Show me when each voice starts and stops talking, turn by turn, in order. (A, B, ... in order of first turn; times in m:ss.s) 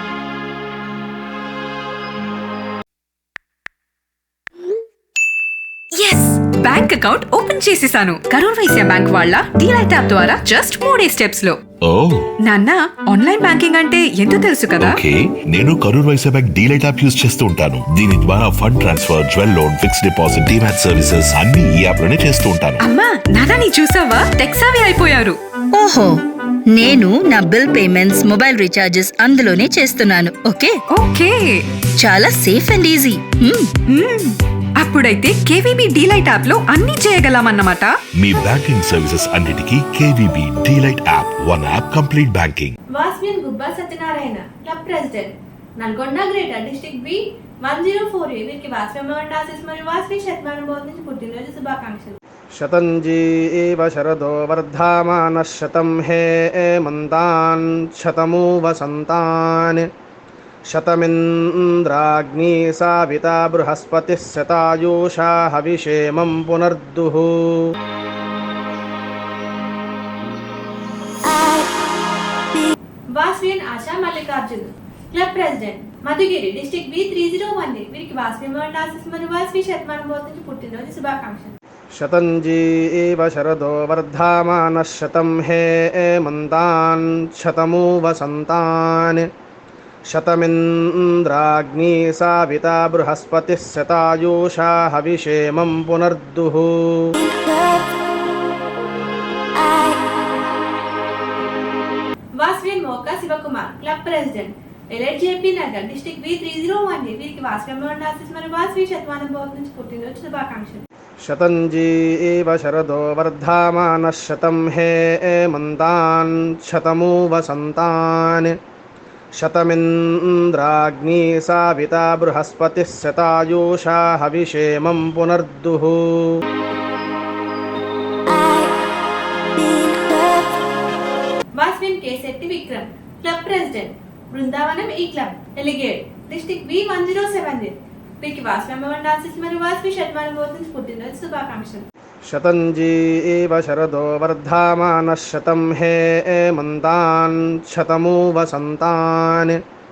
0:06.0-0:11.6 A
0:11.8-0:12.3 B
0:12.4-0:15.0 A
0:14.8-0:22.8 B
0:22.8-0:25.4 A
0:25.8-0:26.2 C
0:26.7-0:30.8 C
0:30.9-0:31.6 A
0:32.0-0:33.7 C
0:33.9-0:38.0 A
0:38.2-0:42.8 B
0:43.0-0:52.2 D
0:52.6-0:59.9 E
1:00.7-1:07.7 E
1:13.1-1:21.5 D
1:22.0-1:29.3 E
1:30.1-1:37.1 E
1:42.4-1:50.8 D
1:51.2-1:58.5 E
1:59.4-2:06.3 E
2:11.6-2:21.8 D
2:22.3-2:29.6 E